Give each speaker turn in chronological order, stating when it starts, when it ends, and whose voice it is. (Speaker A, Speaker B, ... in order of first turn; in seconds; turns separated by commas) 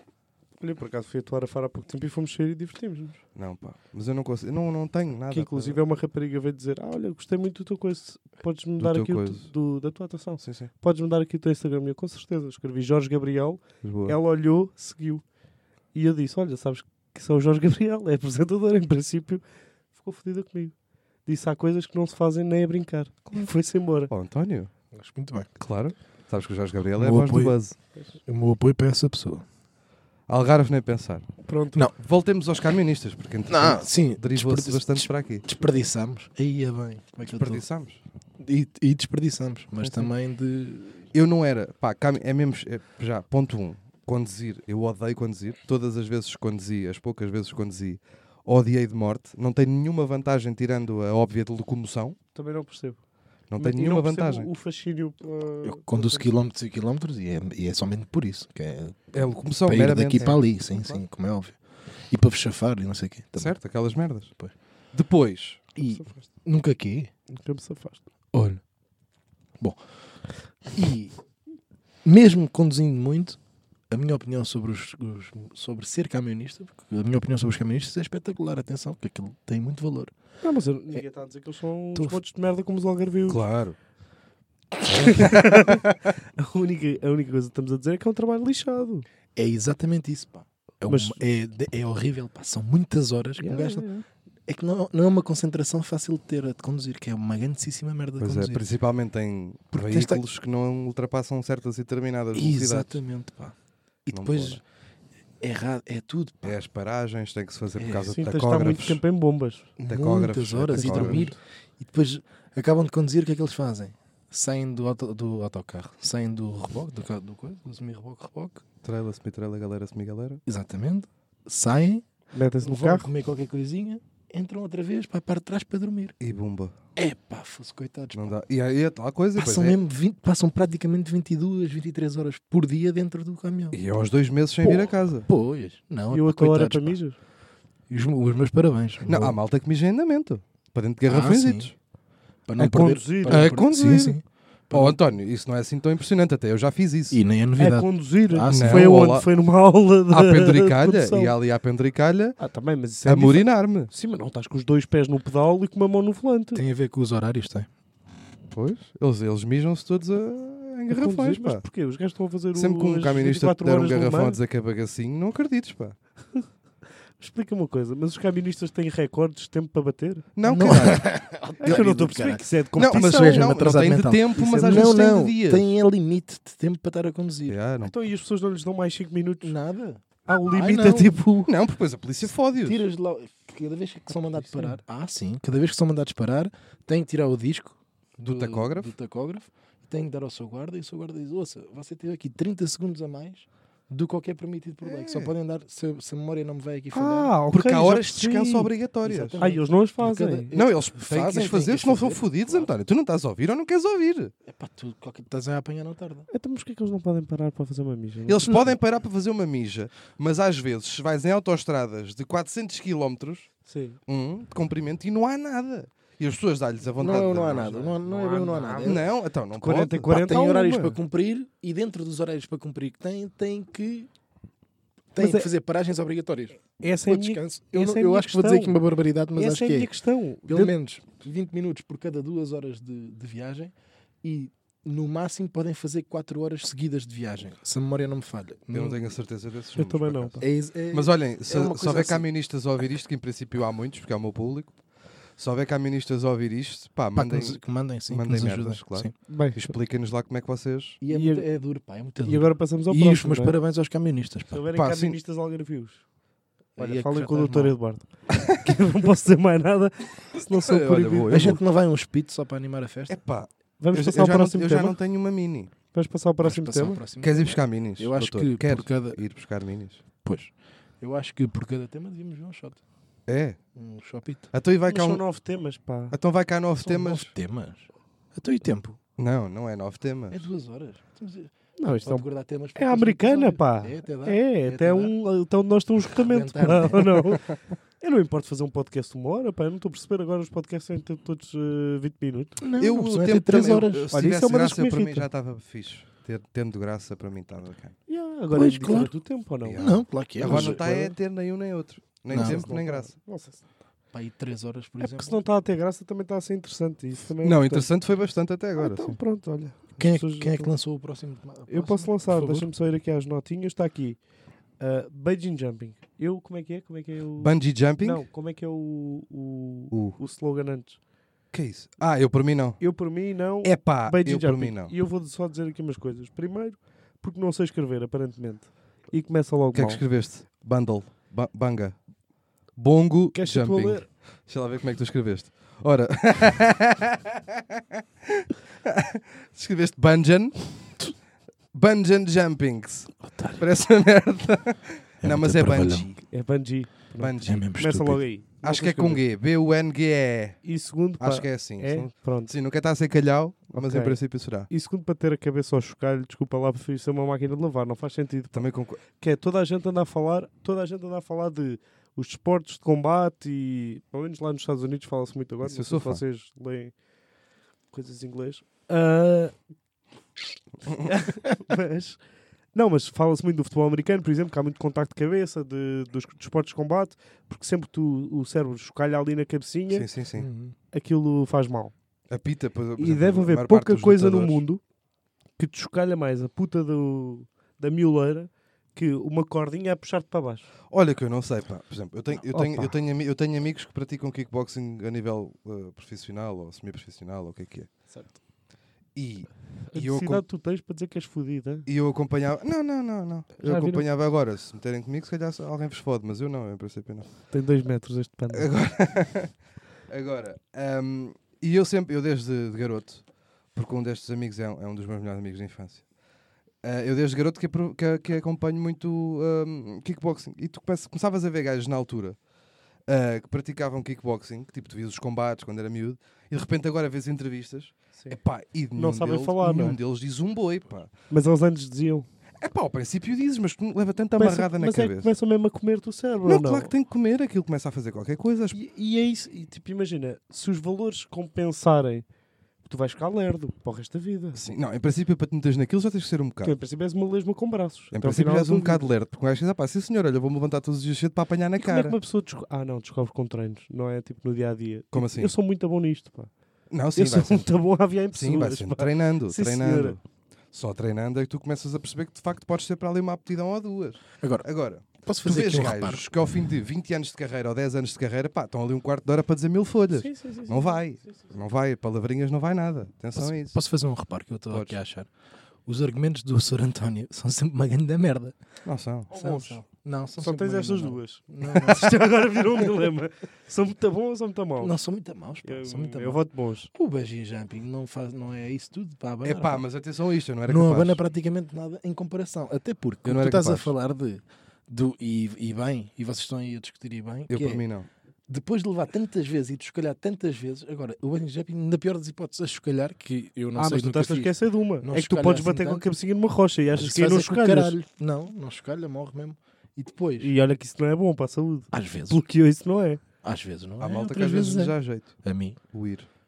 Speaker A: 0.6-3.2, Speaker B: 3.4-5.8, Speaker A: 5.3-15.2, Speaker B: 8.8-9.5, Speaker B: 10.4-10.7, Speaker B: 13.8-14.2, Speaker A: 15.9-19.4, Speaker A: 19.9-20.7, Speaker A: 21.2-24.1, Speaker B: 24.1-24.7, Speaker C: 24.9-25.5, Speaker B: 25.6-27.7, Speaker C: 27.0-27.6, Speaker C: 28.2-29.4, Speaker B: 30.3-31.3, Speaker A: 31.4-31.8, Speaker B: 31.9-35.5, Speaker C: 33.5-37.6, Speaker B: 37.2-38.0, Speaker C: 38.4-41.1, Speaker B: 41.1-52.2, Speaker A: 52.3-53.0, Speaker B: 53.5-54.5, Speaker A: 53.6-56.3, Speaker C: 55.6-63.6, Speaker B: 59.1-60.4, Speaker A: 60.2-61.0, Speaker B: 63.4-64.3, Speaker B: 64.9-65.6, Speaker C: 65.7-67.1, Speaker A: 65.8-66.3, Speaker A: 67.3-68.0, Speaker C: 68.3-68.6, Speaker C: 70.6-71.1, Speaker C: 72.0-73.4, Speaker C: 73.9-80.1, Speaker A: 80.4-83.4, Speaker C: 81.9-82.2, Speaker B: 83.3-83.8, Speaker A: 84.9-89.0, Speaker B: 84.9-85.8, Speaker C: 89.3-93.9, Speaker A: 90.9-91.2, Speaker A: 93.4-94.0, Speaker C: 94.5-98.6, Speaker B: 98.2-103.0, Speaker C: 99.7-100.2, Speaker C: 102.3-103.5, Speaker C: 104.0-104.6, Speaker B: 104.1-104.6, Speaker C: 105.4-106.6, Speaker B: 106.4-109.0, Speaker C: 107.8-108.1, Speaker A: 108.1-109.7, Speaker C: 109.8-118.6, Speaker B: 109.8-111.3, Speaker A: 110.7-111.3, Speaker B: 118.8-120.4, Speaker C: 120.5-122.1, Speaker A: 122.3-123.1, Speaker C: 122.6-126.1, Speaker B: 126.2-126.7, Speaker C: 127.0-128.3, Speaker B: 128.1-129.8, Speaker C: 129.3-133.8, Speaker B: 133.7-135.3, Speaker C: 134.6-137.0, Speaker A: 136.1-137.2, Speaker C: 137.9-139.4, Speaker B: 139.1-141.7, Speaker C: 141.1-141.7, Speaker C: 142.4-145.0, Speaker A: 142.6-143.5, Speaker B: 143.3-147.2, Speaker C: 147.1-149.0, Speaker A: 147.6-151.3, Speaker B: 148.5-149.3, Speaker B: 150.1-152.4, Speaker A: 152.4-156.6, Speaker B: 153.0-153.9, Speaker C: 156.5-157.7, Speaker B: 158.5-161.6, Speaker A: 160.9-164.4, Speaker B: 162.5-166.0, Speaker A: 167.2-170.3, Speaker B: 170.3-171.8, Speaker C: 170.4-177.6, Speaker A: 171.6-173.5, Speaker B: 172.8-175.7, Speaker B: 177.5-177.9, Speaker A: 177.8-179.6, Speaker C: 179.4-181.2, Speaker A: 180.2-181.5, Speaker B: 181.4-182.8, Speaker C: 182.6-197.3, Speaker A: 184.3-184.8, Speaker B: 188.2-188.9, Speaker B: 194.8-195.3, Speaker A: 196.9-198.7, Speaker B: 197.5-199.4, Speaker C: 199.0-202.7, Speaker A: 199.4-200.5, Speaker B: 200.5-204.3, Speaker C: 204.4-206.3, Speaker A: 206.3-208.8, Speaker B: 208.3-213.5, Speaker A: 213.7-214.0, Speaker B: 214.1-217.8, Speaker C: 217.0-219.0, Speaker A: 217.4-221.0, Speaker B: 218.8-220.1, Speaker C: 220.1-224.1, Speaker C: 225.1-229.9, Speaker A: 225.2-225.5, Speaker A: 226.8-228.8, Speaker A: 229.3-230.7, Speaker C: 230.5-239.0, Speaker B: 238.7-244.8, Speaker A: 239.8-240.4, Speaker C: 240.4-242.3, Speaker B: 245.3-251.0, Speaker C: 247.1-249.1, Speaker A: 249.3-249.7, Speaker C: 251.0-254.6, Speaker A: 251.1-251.4, Speaker A: 252.2-253.6, Speaker A: 254.5-256.0, Speaker B: 254.7-255.2, Speaker C: 256.8-257.8, Speaker A: 256.8-261.6, Speaker B: 258.3-258.7, Speaker B: 260.5-261.6, Speaker C: 261.3-263.2, Speaker B: 263.1-265.7, Speaker A: 263.8-265.0, Speaker A: 265.9-267.0, Speaker C: 266.4-269.2, Speaker B: 267.2-270.0, Speaker C: 270.2-272.8, Speaker B: 273.3-273.6, Speaker C: 273.7-274.5, Speaker B: 274.5-275.2, Speaker A: 274.9-276.1, Speaker B: 276.1-277.3, Speaker C: 276.8-279.0, Speaker B: 279.2-280.4, Speaker C: 280.3-285.1, Speaker A: 281.8-292.6, Speaker C: 286.1-287.4, Speaker C: 292.6-294.1, Speaker B: 292.8-297.9, Speaker A: 294.1-295.2, Speaker A: 298.1-301.1, Speaker C: 298.5-299.1, Speaker B: 299.6-303.1, Speaker C: 299.8-300.8, Speaker C: 302.3-302.7, Speaker A: 302.3-303.6, Speaker C: 304.1-305.4, Speaker A: 305.0-307.9, Speaker B: 307.4-309.2, Speaker A: 308.8-310.7, Speaker C: 310.0-312.7, Speaker A: 311.7-314.2, Speaker A: 314.8-321.0, Speaker B: 317.4-318.2, Speaker B: 319.9-320.2, Speaker B: 321.5-322.8, Speaker A: 322.8-330.0, Speaker B: 323.6-324.9, Speaker B: 329.7-332.0, Speaker B: 332.8-341.1, Speaker A: 333.3-334.1, Speaker B: 341.7-346.3, Speaker C: 343.2-343.6, Speaker C: 345.2-346.1, Speaker A: 346.3-349.2, Speaker B: 347.2-347.6, Speaker C: 347.4-348.2, Speaker B: 348.6-350.6, Speaker A: 350.6-352.5, Speaker B: 351.2-354.7, Speaker A: 353.7-366.9, Speaker B: 358.5-359.0, Speaker B: 365.6-366.2, Speaker A: 367.9-369.5, Speaker A: 370.8-372.2, Speaker A: 372.7-380.1, Speaker B: 379.9-380.5, Speaker C: 380.4-380.7, Speaker A: 380.9-381.9, Speaker B: 382.3-384.6, Speaker A: 383.0-384.8, Speaker A: 385.6-390.7, Speaker B: 390.9-397.9, Speaker A: 392.5-392.9, Speaker A: 398.1-398.4, Speaker B: 399.1-400.4, Speaker A: 399.9-401.9, Speaker B: 401.9-407.3, Speaker A: 403.6-404.0, Speaker A: 407.5-408.7, Speaker B: 408.5-409.6, Speaker B: 410.1-416.1, Speaker B: 416.8-422.4, Speaker B: 423.1-431.1, Speaker A: 428.9-430.0, Speaker A: 431.3-432.3, Speaker B: 432.6-435.3, Speaker A: 434.4-436.9, Speaker B: 436.4-438.8, Speaker A: 438.7-442.2, Speaker A: 442.8-444.6, Speaker B: 444.5-446.7, Speaker A: 446.6-449.1, Speaker B: 448.1-452.2, Speaker A: 451.8-456.5, Speaker B: 455.1-455.5, Speaker B: 456.9-457.7, Speaker A: 457.1-460.2, Speaker B: 458.3-460.2, Speaker B: 460.7-473.8, Speaker C: 464.4-466.2, Speaker A: 470.1-471.4, Speaker C: 473.4-475.3, Speaker B: 474.7-475.0, Speaker C: 475.9-478.6, Speaker B: 478.9-479.3, Speaker A: 479.3-479.8, Speaker C: 479.3-483.1, Speaker A: 480.4-484.9, Speaker C: 484.8-489.8, Speaker A: 485.6-486.9, Speaker B: 489.4-491.2, Speaker C: 490.7-497.8, Speaker B: 493.2-493.9, Speaker B: 497.5-498.1, Speaker C: 498.5-506.0, Speaker A: 503.8-507.9, Speaker C: 506.9-510.5, Speaker A: 510.4-513.2, Speaker C: 511.9-512.4, Speaker C: 513.4-515.8, Speaker B: 514.0-515.4, Speaker B: 515.9-516.3